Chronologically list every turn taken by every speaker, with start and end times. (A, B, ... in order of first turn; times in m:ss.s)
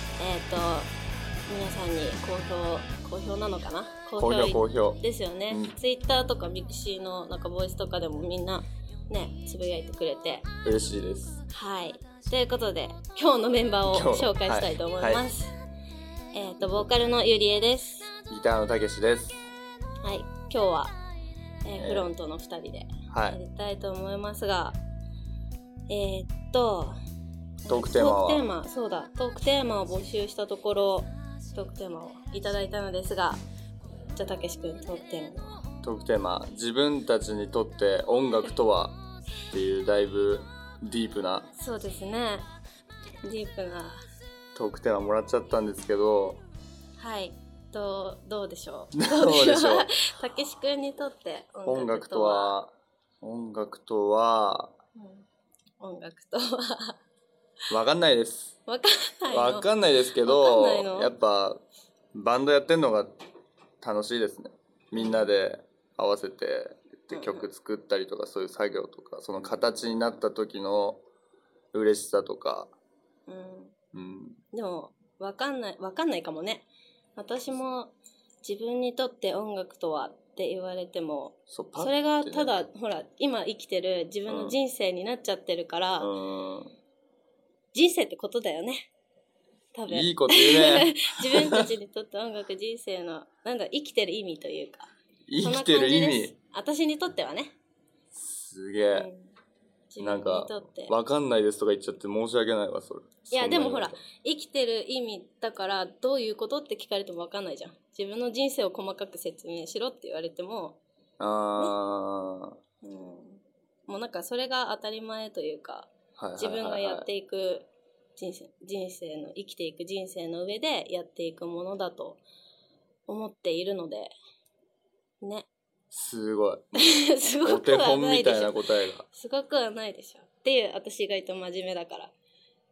0:00.2-0:00.9 A
0:01.5-0:10.5 A
0:04.2-0:05.8 B
0:10.6-0:11.4 B
0:11.5-0:15.6 A
0:13.9-0:15.2 B
0:16.3-0:18.1 A
0:18.3-0:19.4 B
0:20.0-0:21.0 A
0:21.6-0:24.8 A
0:21.8-0:22.1 B
0:23.1-0:23.4 B
0:25.9-0:27.0 A
0:27.6-0:33.4 A
0:27.7-0:28.5 B
0:34.1-0:35.6 A
0:35.8-0:41.5 B
0:41.5-0:42.5 A
0:43.2-0:44.0 A
0:44.6-0:46.4 B
0:47.0-0:52.6 A
0:48.9-0:50.0 B
0:51.7-0:54.8 B
0:55.0-0:55.3 A
0:55.8-0:57.0 A
0:57.7-0:58.6 B
0:58.7-0:59.7 A
0:59.3-1:01.6 B
1:00.2-1:01.1 A
1:02.1-1:03.2 B
1:03.8-1:11.0 B
1:05.0-1:05.3 A
1:07.1-1:07.5 A
1:11.7-1:12.7 B
1:13.3-1:13.7 A
1:13.9-1:14.4 B
1:14.5-1:26.1 A
1:21.5-1:22.6 B
1:24.3-1:24.6 B
1:26.0-1:26.7 B
1:27.7-1:28.9 A
1:29.7-1:37.6 A
1:29.9-1:31.7 B
1:35.3-1:36.3 B
1:38.1-1:39.1 B
1:38.9-1:39.3 A
1:39.9-1:41.0 A
1:40.0-1:44.0 B
1:43.3-1:50.8 A
1:51.2-1:52.6 B
1:52.8-2:02.2 A
1:56.2-1:57.1 B
2:03.1-2:04.2 A
2:05.2-2:05.5 A
2:05.9-2:09.1 B
2:06.8-2:08.5 A
2:09.1-2:12.1 A